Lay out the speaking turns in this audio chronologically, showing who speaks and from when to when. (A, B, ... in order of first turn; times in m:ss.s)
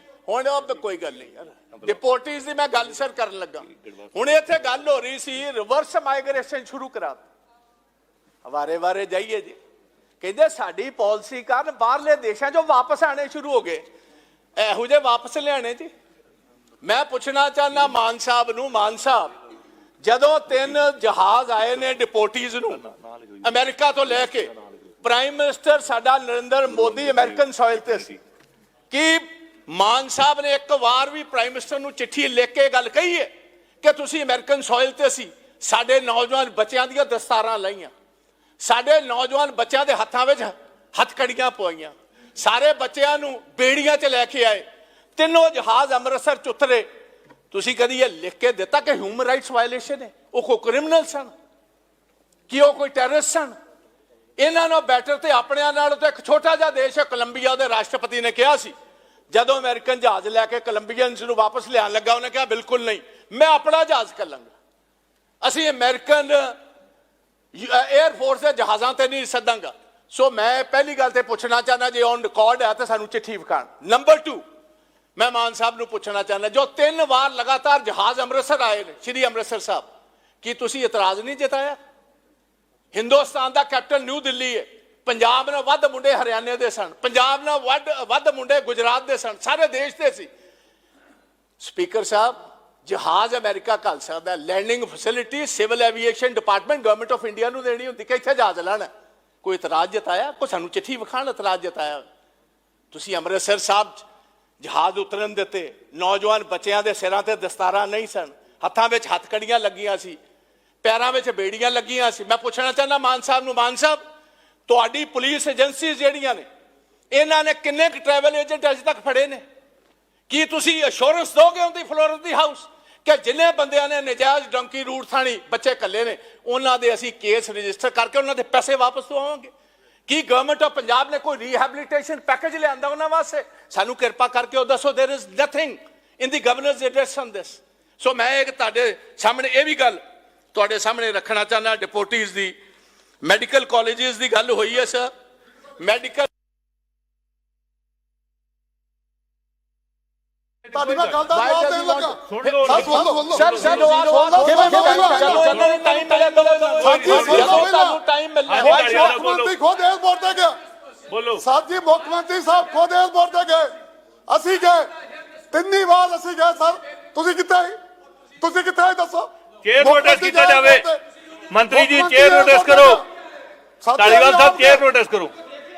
0:00.3-0:07.2 A
0:08.4-0:09.6 A
0:10.2-0:13.8 A
0:14.6-0:15.9 A
0:16.8-0:19.3 A
0:20.0-0:22.8 A
0:22.8-0:23.4 B
0:23.4-0:24.5 A
0:25.0-0:28.1 A
0:26.7-0:28.2 B
0:28.9-0:33.3 A
0:33.8-0:37.9 A
0:38.6-0:44.6 A
0:45.2-0:46.9 A
0:47.5-0:51.3 A
0:52.5-0:53.6 A
0:54.4-0:58.7 A
0:59.3-1:04.5 A
1:05.4-1:06.6 A
1:07.5-1:14.4 A
1:15.2-1:19.9 A
1:20.4-1:21.8 A
1:22.9-1:30.3 A
1:31.6-1:38.9 A
1:39.4-1:42.0 A
1:42.9-1:44.0 A
1:44.6-1:50.2 A
1:50.8-1:54.0 A
1:54.7-1:56.4 A
1:57.1-1:59.4 A
2:00.3-2:09.5 A
2:10.1-2:20.0 A
2:20.5-2:22.6 A
2:23.2-2:25.1 A
2:25.8-2:26.3 A
2:30.7-2:31.2 B
2:30.7-2:35.5 C
2:31.3-2:39.2 A
2:32.3-2:37.7 B
2:36.8-2:38.0 C
2:38.5-2:39.6 B
2:38.6-2:40.6 C
2:41.1-2:41.4 B
2:41.4-2:43.7 C
2:44.3-2:44.9 C
2:45.5-2:47.8 C
2:48.4-2:51.0 C
2:49.6-2:50.9 B
2:51.5-2:53.0 B
2:51.7-2:53.0 C
2:53.8-2:54.8 C
2:54.0-2:55.3 B